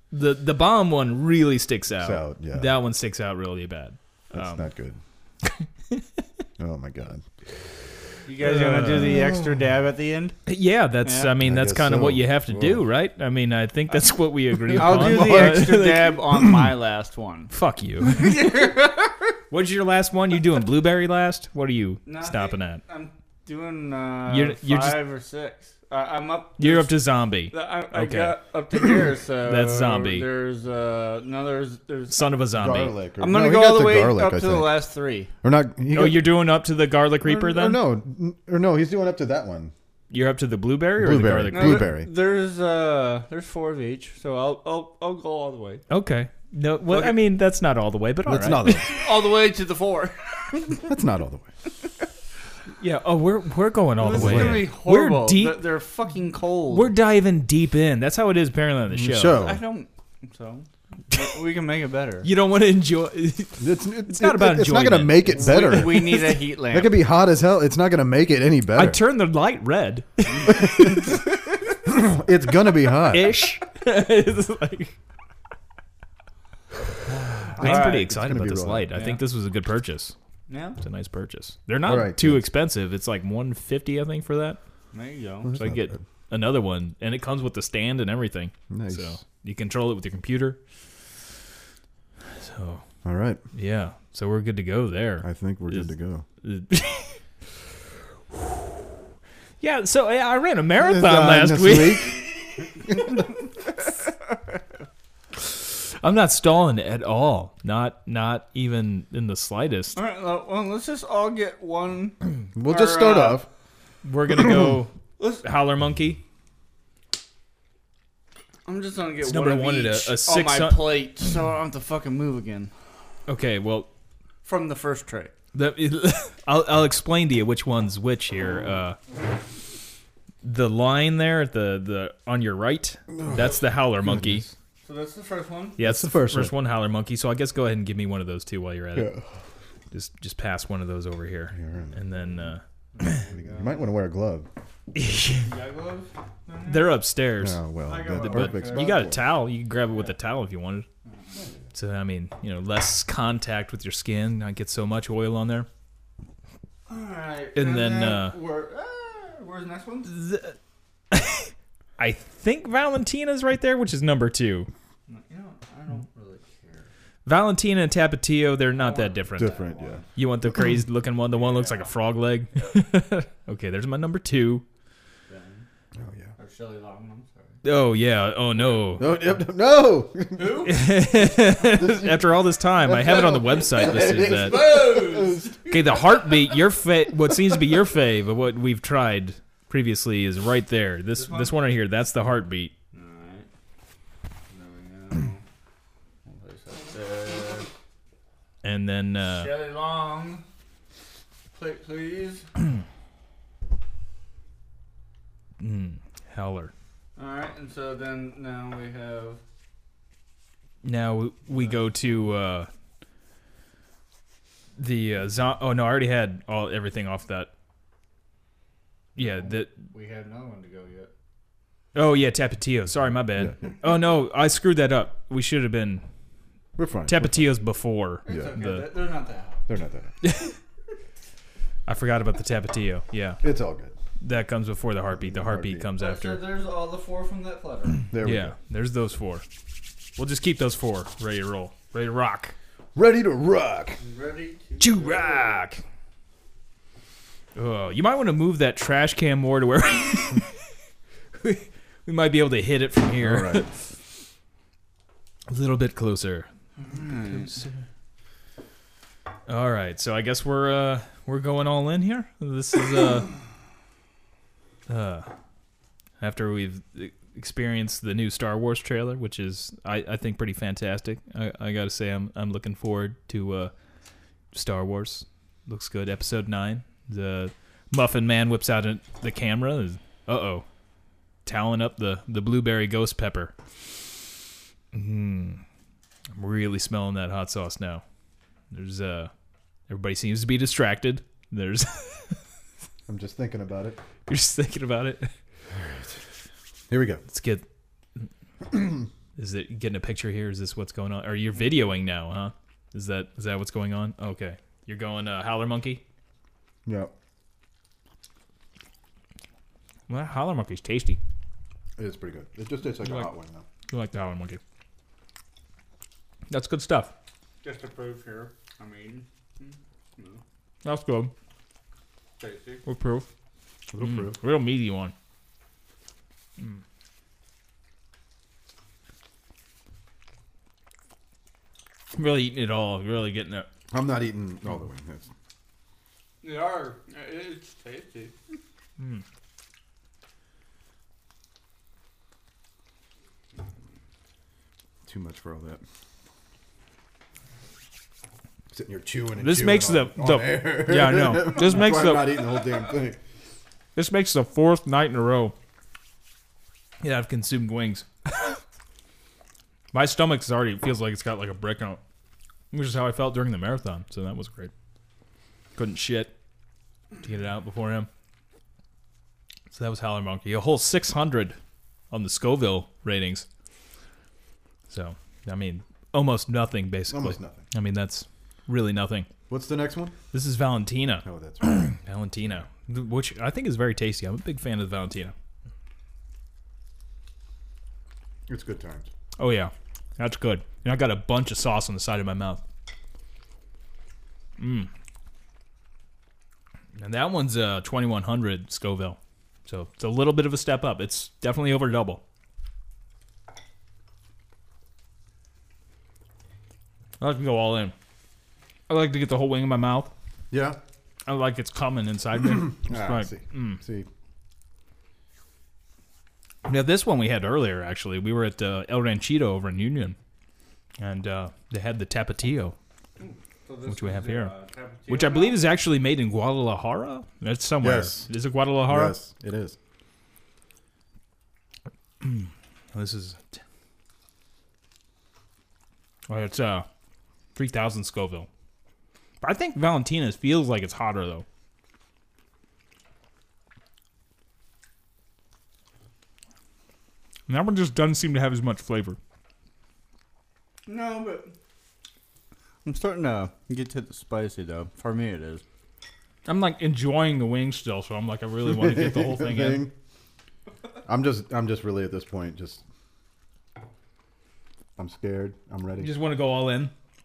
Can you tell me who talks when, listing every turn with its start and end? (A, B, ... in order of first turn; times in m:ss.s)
0:00.1-0:04.7 A
0:02.0-0:02.7 B
0:04.3-0:05.0 B
0:05.4-0:06.0 A
0:06.6-0:07.2 B
0:08.2-0:10.4 C
0:08.4-0:09.2 A
0:08.8-0:09.6 B
0:10.4-0:16.2 A
0:11.0-0:11.3 C
0:11.4-0:12.8 B
0:14.7-0:19.2 C
0:14.8-0:15.7 B
0:16.4-0:16.7 B
0:17.5-0:18.7 A
0:19.5-0:22.8 A
0:22.0-0:27.0 C
0:24.3-0:25.0 A
0:26.6-0:28.4 A
0:27.5-0:32.2 C
0:29.4-0:30.3 A
0:32.1-0:33.0 A
0:32.5-0:34.8 B
0:33.2-0:35.3 C
0:35.4-0:36.3 B
0:35.9-0:37.8 A
0:37.2-0:39.7 B
0:40.1-0:41.9 A
0:41.0-0:42.1 B
0:41.5-0:45.8 C
0:45.9-0:48.8 A
0:46.9-0:47.1 C
0:48.2-0:49.0 B
0:48.9-0:50.7 C
0:50.6-0:51.5 B
0:52.8-0:55.6 A
0:54.0-0:56.9 C
0:54.0-0:54.7 B
0:56.7-0:59.4 A
0:58.9-0:59.6 B
0:59.3-1:02.3 C
1:02.2-1:05.8 A
1:03.6-1:09.0 B
1:05.3-1:07.0 C
1:08.7-1:11.2 A
1:10.3-1:10.6 C
1:10.5-1:11.2 B
1:11.8-1:13.4 B
1:13.1-1:14.9 A
1:17.4-1:20.1 A
1:17.5-1:18.0 C
1:17.5-1:18.9 B
1:18.9-1:19.2 C
1:20.5-1:20.8 C
1:20.8-1:24.6 A
1:21.8-1:22.5 B
1:24.9-1:25.5 C
1:25.4-1:26.0 B
1:25.5-1:30.6 A
1:28.7-1:29.2 B
1:32.4-1:32.8 A
1:33.0-1:33.4 B
1:33.5-1:37.2 A
1:35.2-1:36.2 B
1:39.6-1:42.6 A
1:40.8-1:42.2 B
1:45.5-1:50.0 A
1:49.9-1:53.4 C
1:52.5-1:53.5 B
1:54.0-1:56.2 A
1:58.6-2:02.7 C
1:59.2-2:00.9 A
2:03.3-2:03.9 A
2:04.4-2:05.3 C
2:05.5-2:09.0 A
2:10.4-2:14.5 A
2:13.1-2:14.5 B
2:14.8-2:15.8 C
2:15.8-2:19.1 A
2:15.8-2:16.5 B
2:18.9-2:19.3 B
2:19.9-2:23.2 A
2:21.5-2:22.4 B
2:22.9-2:23.9 C
2:23.3-2:24.5 B
2:24.9-2:25.5 A
2:25.4-2:27.0 C
2:26.6-2:30.8 A
2:27.4-2:29.2 B
2:27.8-2:29.0 C
2:31.0-2:31.4 C
2:31.3-2:31.6 B
2:31.7-2:35.7 A
2:36.9-2:40.1 C
2:37.5-2:38.4 A
2:40.0-2:40.6 A
2:41.1-2:44.7 A
2:45.1-2:46.9 C
2:47.2-2:49.6 A
2:48.7-2:50.1 C
2:49.4-2:50.0 B
2:50.2-2:54.6 A
2:51.4-2:51.8 C
2:55.3-2:55.6 C
2:55.9-2:56.3 B
2:56.4-2:57.6 C
2:57.6-2:59.1 A
2:58.7-3:00.7 B
3:00.4-3:00.8 C
3:00.6-3:04.8 A
3:01.6-3:02.2 B
3:02.9-3:05.7 B
3:03.3-3:06.3 C
3:05.7-3:12.7 A
3:11.2-3:11.5 C
3:12.9-3:13.5 C
3:14.5-3:15.4 C
3:16.2-3:17.7 C
3:18.6-3:19.5 A
3:19.2-3:20.4 C
3:21.5-3:22.4 C
3:25.6-3:26.7 A
3:27.2-3:29.4 C
3:30.8-3:32.7 A
3:34.8-3:37.5 A
3:39.2-3:39.7 A
3:39.2-3:41.1 C
3:41.9-3:46.0 A
3:46.8-3:47.5 B
3:47.1-3:48.9 A
3:48.3-3:49.6 C
3:48.3-3:48.6 B
3:49.7-3:50.1 B
3:50.2-3:50.6 A
3:51.9-3:53.4 A
3:53.4-3:54.0 B
3:54.2-3:56.4 A
3:55.1-3:55.9 B
3:56.0-3:58.0 C
3:58.1-3:58.5 B
3:58.2-3:59.4 A
4:00.2-4:02.5 A
4:02.9-4:04.0 B
4:04.0-4:05.6 C
4:04.8-4:05.8 A
4:07.6-4:10.5 A
4:11.3-4:13.7 A
4:13.2-4:13.6 B
4:15.5-4:16.5 A
4:16.8-4:17.5 C
4:17.0-4:17.7 A
4:19.5-4:23.3 A
4:24.9-4:25.3 A
4:26.2-4:33.7 A
4:34.5-4:40.6 A
4:41.4-4:43.5 A
4:44.9-4:45.6 A
4:46.3-4:48.0 A
4:48.7-4:49.3 A
4:49.9-4:52.4 A
4:53.1-4:54.0 B
4:54.3-4:55.3 A
4:55.7-4:56.0 B
4:56.9-4:57.2 B
4:57.3-4:57.6 A
4:58.7-4:59.0 B
4:59.4-5:06.0 A
5:06.8-5:07.1 B
5:10.1-5:11.2 A
5:12.0-5:13.6 B
5:13.0-5:13.3 A
5:13.9-5:14.6 A
5:16.5-5:17.1 A
5:17.6-5:20.4 C
5:20.8-5:21.3 A
5:22.4-5:22.8 C
5:22.8-5:23.2 A
5:23.9-5:24.4 B
5:24.0-5:25.1 A
5:32.1-5:33.7 A
5:33.9-5:35.3 B
5:36.4-5:38.4 C
5:45.0-5:45.8 B
5:48.7-5:53.2 B
5:49.4-5:52.4 A
5:53.9-5:55.5 A
5:57.0-5:58.6 A
5:59.9-6:02.0 A
6:02.7-6:04.7 A
6:05.8-6:06.3 A
6:07.2-6:08.1 A
6:09.7-6:11.6 A
6:12.1-6:13.4 A
6:14.9-6:19.3 A
6:17.1-6:17.6 B
6:19.5-6:20.1 B
6:20.3-6:25.3 A
6:21.2-6:21.9 B
6:28.5-6:29.1 B
6:29.4-6:32.6 A
6:34.6-6:34.9 A
6:37.0-6:42.2 A
6:47.2-6:47.9 A
6:48.9-6:50.1 A
6:50.5-6:50.8 B
6:51.2-6:53.8 A
6:52.4-6:54.1 B
6:56.6-7:00.2 A
7:01.0-7:02.7 A
7:03.2-7:05.6 C
7:03.8-7:04.5 A
7:05.1-7:09.2 A
7:07.8-7:08.3 B
7:08.8-7:09.8 B
7:12.2-7:13.6 A
7:16.3-7:16.8 A
7:17.5-7:18.5 A
7:19.4-7:21.4 A
7:27.5-7:29.2 A
7:30.8-7:31.5 C
7:32.8-7:35.6 C
7:36.4-7:39.9 A
7:38.6-7:39.9 B
7:41.0-7:42.8 B
7:45.0-7:46.2 B
7:46.0-7:46.9 A